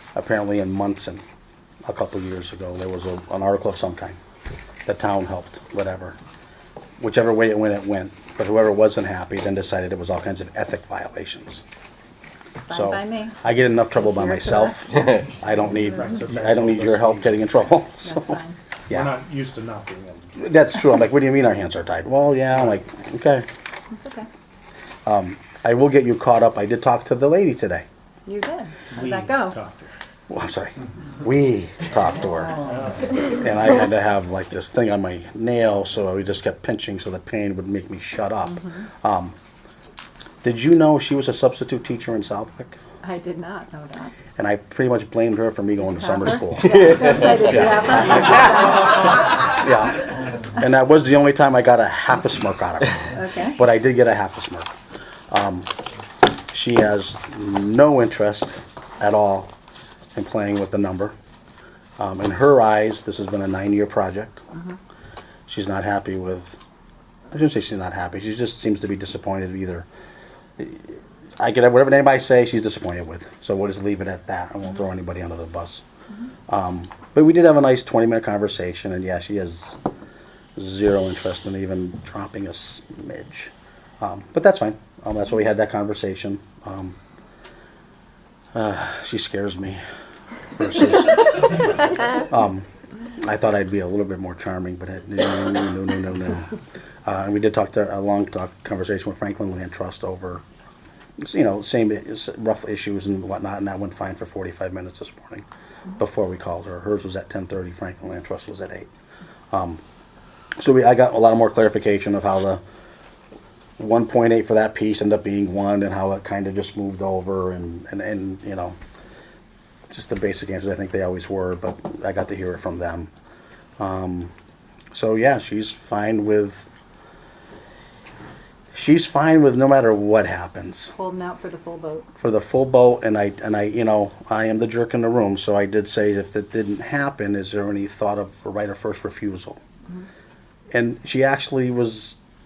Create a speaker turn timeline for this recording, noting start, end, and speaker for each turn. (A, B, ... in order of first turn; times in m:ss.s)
0:00.1-0:01.2 A
0:01.8-0:04.2 A
0:04.8-0:06.2 A
0:07.0-0:11.6 A
0:12.7-0:13.4 B
0:12.7-0:19.1 A
0:13.9-0:15.0 B
0:15.7-0:17.5 C
0:18.0-0:18.6 B
0:18.9-0:20.4 C
0:20.4-0:23.4 A
0:23.9-0:24.3 B
0:25.0-0:27.8 A
0:28.2-0:29.6 B
0:28.9-0:29.9 C
0:30.3-0:32.6 A
0:32.6-0:33.1 C
0:33.3-0:39.3 A
0:38.5-0:38.8 B
0:40.4-0:42.8 A
0:43.0-0:44.2 B
0:44.4-0:54.7 A
0:45.9-0:49.1 B
0:53.1-0:53.6 B
0:55.3-0:55.7 A
0:56.5-0:59.5 A
1:00.1-1:01.1 A
1:02.0-1:04.4 A
1:05.5-1:06.6 A
1:07.3-1:09.8 A
1:10.6-1:15.8 A
1:16.5-1:19.8 A
1:20.6-1:27.0 A
1:28.5-1:29.8 A
1:30.5-1:32.6 A
1:33.2-1:36.5 A
1:37.0-1:40.4 A
1:41.2-1:45.4 A
1:46.0-1:48.9 A
1:49.5-1:49.8 A
1:50.6-1:52.6 A
1:53.8-1:58.8 A
1:59.9-2:03.1 A
2:03.8-2:04.3 A
2:04.9-2:06.7 A
2:08.7-2:10.9 A
2:10.9-2:12.1 B
2:12.2-2:19.6 A
2:20.7-2:22.2 A